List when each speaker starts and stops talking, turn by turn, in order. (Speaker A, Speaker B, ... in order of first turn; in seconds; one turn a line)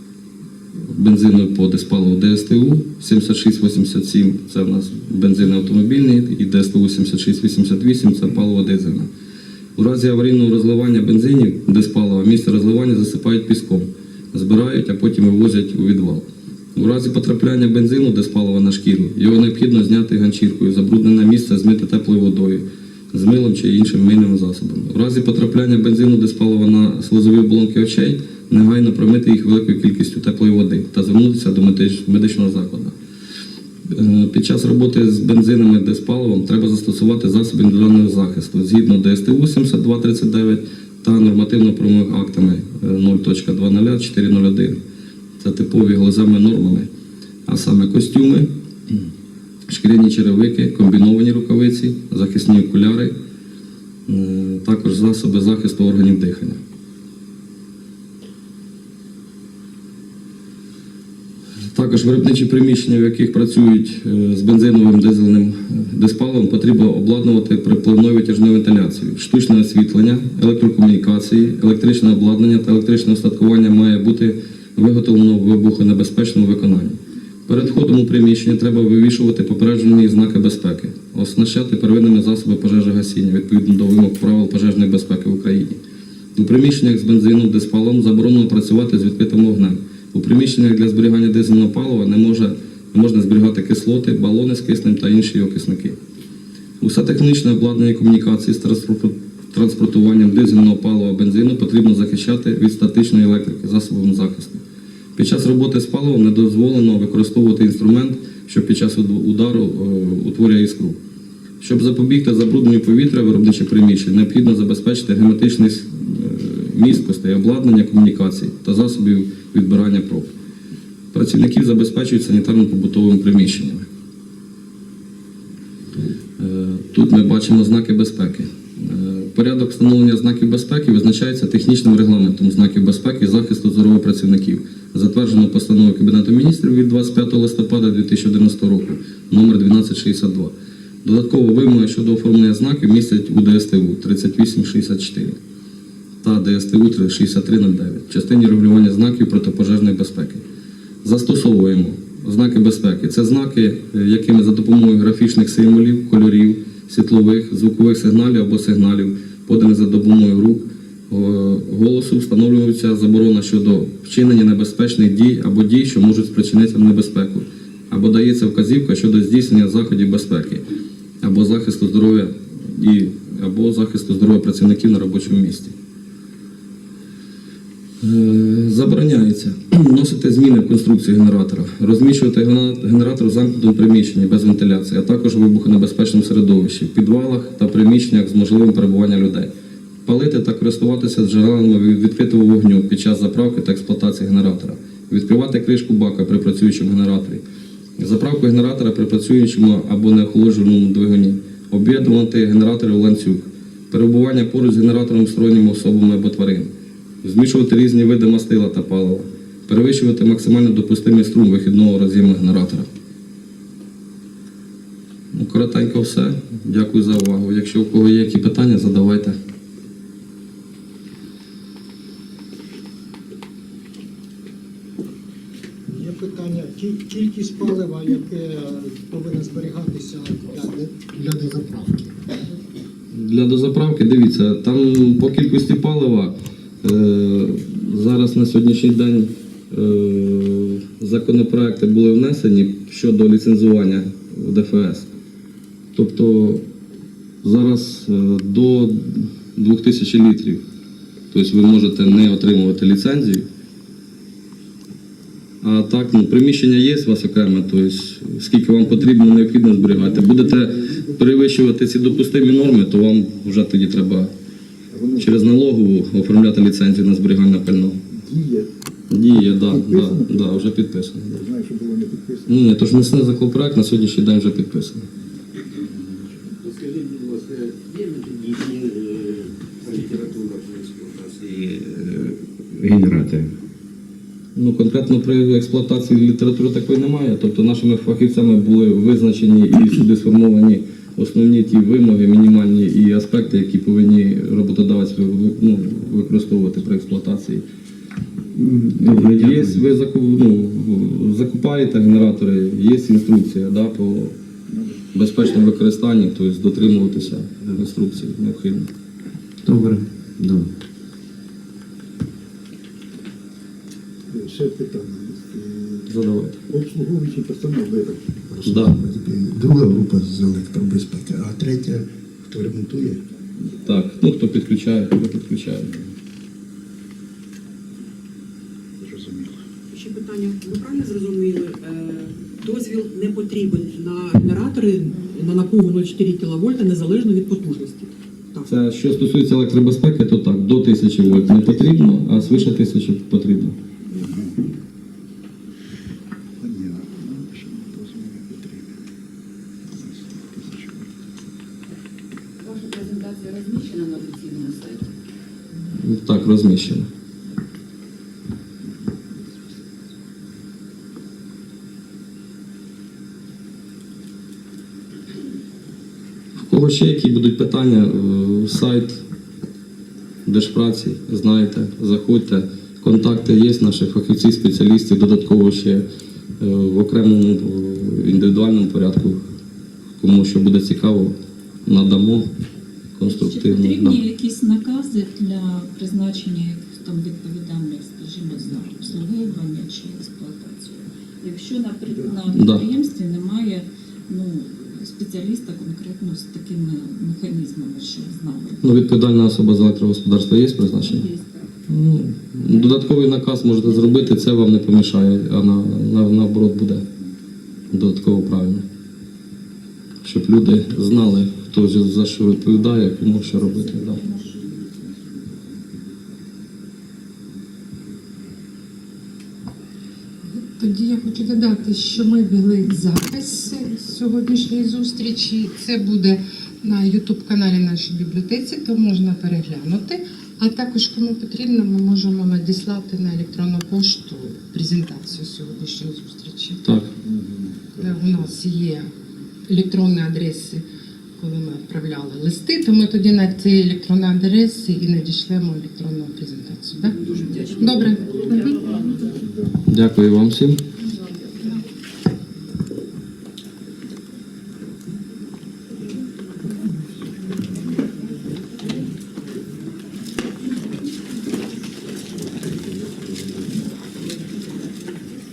Speaker A: 0.9-9.1
Speaker A: 9.8-32.9
Speaker A: 33.9-44.8
Speaker A: 45.4-46.9
Speaker A: 47.5-48.9
Speaker A: 49.7-53.1
Speaker A: 54.1-56.6
Speaker A: 61.7-85.8
Speaker A: 86.3-96.0
Speaker A: 96.8-104.6
Speaker A: 105.2-111.0
Speaker A: 111.6-120.3
Speaker A: 121.1-123.8
Speaker A: 126.4-145.4
Speaker A: 146.2-150.4
Speaker A: 151.0-170.6
Speaker A: 171.2-175.7
Speaker A: 178.0-189.5
Speaker A: 190.0-197.4
Speaker A: 198.0-206.7
Speaker A: 207.2-212.9
Speaker A: 215.3-219.4
Speaker B: 225.9-232.1
Speaker A: 233.1-245.1
Speaker A: 245.9-246.6
Speaker A: 247.4-250.6
Speaker A: 251.3-253.4
Speaker A: 255.6-264.3
Speaker C: 264.9-265.4
Speaker A: 265.2-268.0
Speaker C: 268.1-268.7
Speaker A: 269.1-271.4
Speaker C: 269.6-270.6
Speaker C: 271.4-272.6
Speaker A: 272.5-275.1
Speaker C: 275.7-276.5
Speaker D: 276.6-283.5
Speaker A: 284.5-297.6
Speaker D: 298.6-299.8
Speaker A: 298.9-304.3
Speaker C: 304.7-304.9
Speaker A: 305.1-308.9
Speaker D: 309.6-310.7
Speaker C: 314.3-316.1
Speaker A: 316.1-316.6
Speaker C: 316.7-323.2
Speaker A: 318.6-319.0
Speaker A: 323.8-325.9
Speaker C: 329.0-329.6
Speaker E: 329.9-338.7
Speaker A: 338.7-343.8
Speaker C: 344.2-344.6
Speaker C: 346.6-348.9
Speaker C: 350.0-351.1
Speaker F: 352.6-355.1
Speaker A: 356.0-357.1
Speaker A: 366.6-369.2
Speaker A: 370.4-376.1
Speaker A: 376.6-379.4
Speaker A: 380.2-382.5
Speaker A: 383.2-384.2
Speaker G: 383.3-398.8
Speaker F: 383.6-390.9
Speaker F: 391.4-392.5
Speaker A: 392.5-392.8
Speaker F: 393.6-394.5
Speaker F: 395.0-398.7
Speaker A: 398.8-401.3
Speaker F: 401.3-401.6
Speaker A: 401.9-407.0
Speaker A: 407.9-408.8
Speaker A: 410.2-414.2
Speaker C: 414.3-416.0
Speaker H: 420.7-436.8
Speaker A: 436.8-437.1
Speaker C: 437.2-438.4
Speaker H: 438.0-439.1
Speaker H: 439.7-440.8
Speaker H: 441.4-448.8
Speaker A: 449.9-450.8
Speaker C: 462.7-463.4